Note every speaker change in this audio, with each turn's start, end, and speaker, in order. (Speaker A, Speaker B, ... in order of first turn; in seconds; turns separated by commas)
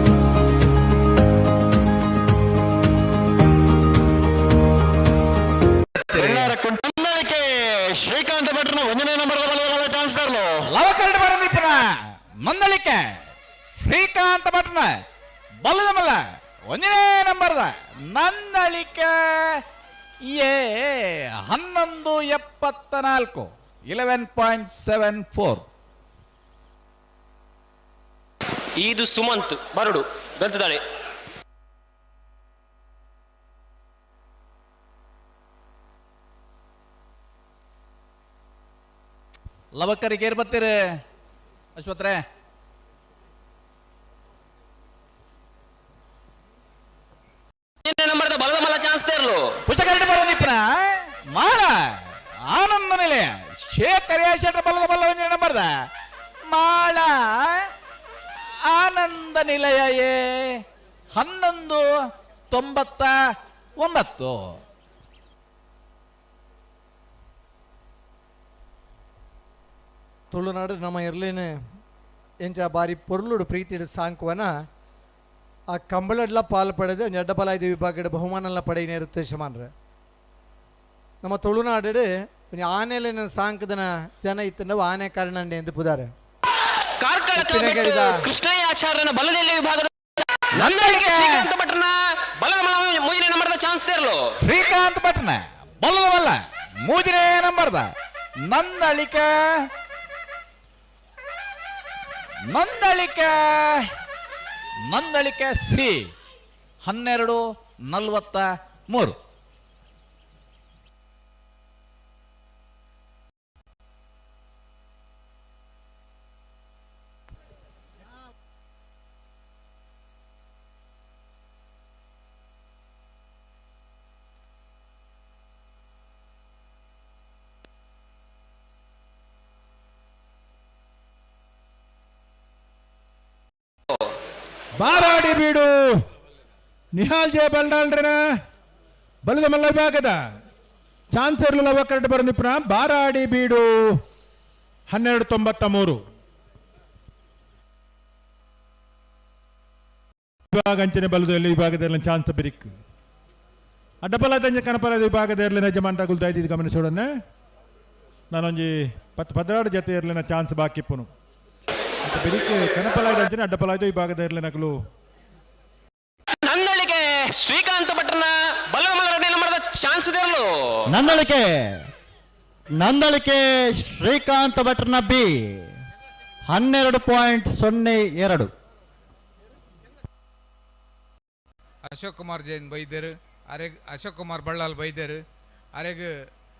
Speaker A: 6.1-10.7, Speaker B: 6.1-6.5, Speaker B: 10.7-13.2, Speaker B: 13.8-15.0, Speaker B: 15.6-19.6, Speaker B: 20.2-25.6, Speaker C: 28.8-30.8, Speaker B: 39.7-41.0, Speaker B: 41.8-42.2, Speaker C: 47.8-49.6, Speaker B: 49.7-55.7, Speaker B: 56.5-57.7, Speaker B: 58.6-61.9, Speaker B: 62.5-63.2, Speaker B: 63.8-64.6, Speaker D: 70.3-71.5, Speaker D: 72.4-74.5, Speaker D: 75.7-79.7, Speaker D: 81.2-86.1, Speaker C: 87.0-94.3, Speaker D: 87.3-88.2, Speaker B: 90.6-91.5, Speaker B: 94.4-99.7, Speaker B: 102.5-103.9, Speaker B: 104.9-106.1, Speaker B: 106.8-109.2, Speaker E: 134.8-135.8, Speaker E: 136.9-138.2, Speaker E: 139.2-140.2, Speaker E: 141.1-143.7, Speaker E: 144.9-146.0, Speaker E: 150.5-152.7, Speaker E: 154.0-157.1, Speaker E: 158.3-161.1, Speaker E: 162.1-164.8, Speaker C: 166.4-170.8, Speaker A: 170.9-171.9, Speaker A: 172.8-175.7, Speaker A: 176.5-178.5, Speaker F: 181.9-185.2, Speaker F: 185.8-186.1